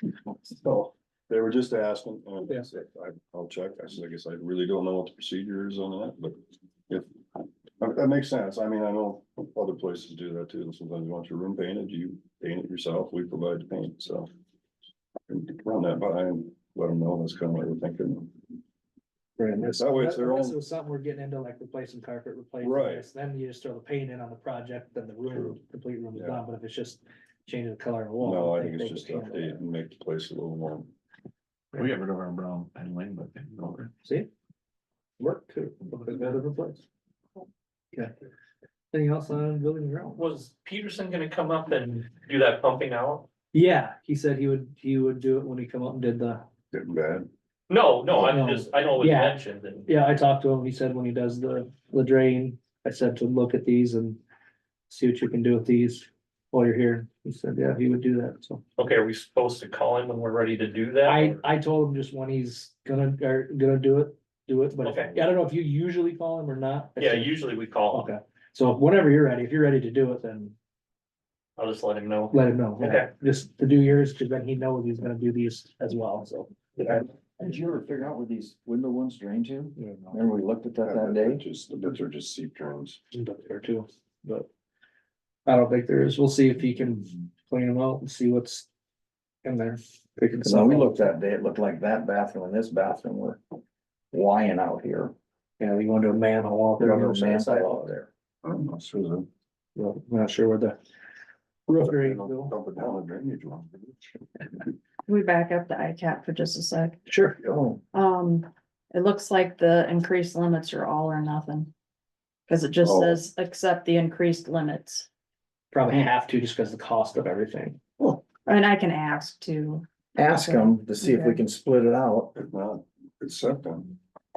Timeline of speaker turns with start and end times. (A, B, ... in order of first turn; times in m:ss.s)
0:00.4-0:07.1 A
0:07.8-0:14.3 A
0:15.3-0:18.4 A
0:19.4-0:29.6 B
0:19.7-0:20.6 A
0:22.6-0:23.0 A
0:25.3-0:25.6 A
0:26.2-0:26.4 A
0:28.2-0:30.9 A
0:31.8-0:33.9 C
0:34.0-0:34.3 B
0:35.2-0:36.8 B
0:38.9-0:40.2 B
0:40.2-0:43.3 D
0:43.5-0:46.4 B
0:46.7-0:47.3 A
0:47.7-0:49.9 D
0:48.1-0:54.2 B
0:54.9-0:58.6 B
0:58.8-1:01.4 D
1:01.0-1:07.3 B
1:04.8-1:05.2 D
1:07.0-1:08.1 D
1:07.9-1:10.6 B
1:11.6-1:13.1 D
1:12.3-1:17.1 B
1:17.4-1:21.4 E
1:19.8-1:20.2 B
1:20.8-1:23.0 A
1:23.1-1:24.5 B
1:25.5-1:28.7 B
1:29.4-1:31.1 B
1:30.4-1:33.4 E
1:34.1-1:35.1 E
1:35.6-1:37.9 B
1:36.8-1:38.1 E
1:38.4-1:39.3 A
1:39.8-1:40.8 B
1:41.7-1:42.5 B
1:41.8-1:44.2 A
1:45.1-1:47.1 F
1:47.1-1:47.4 B
1:47.9-1:51.7 F
1:52.5-1:55.1 F
1:52.8-1:53.2 A
1:55.7-1:57.8 B
1:58.5-2:01.4 F
2:00.2-2:02.4 E
2:02.4-2:04.0 A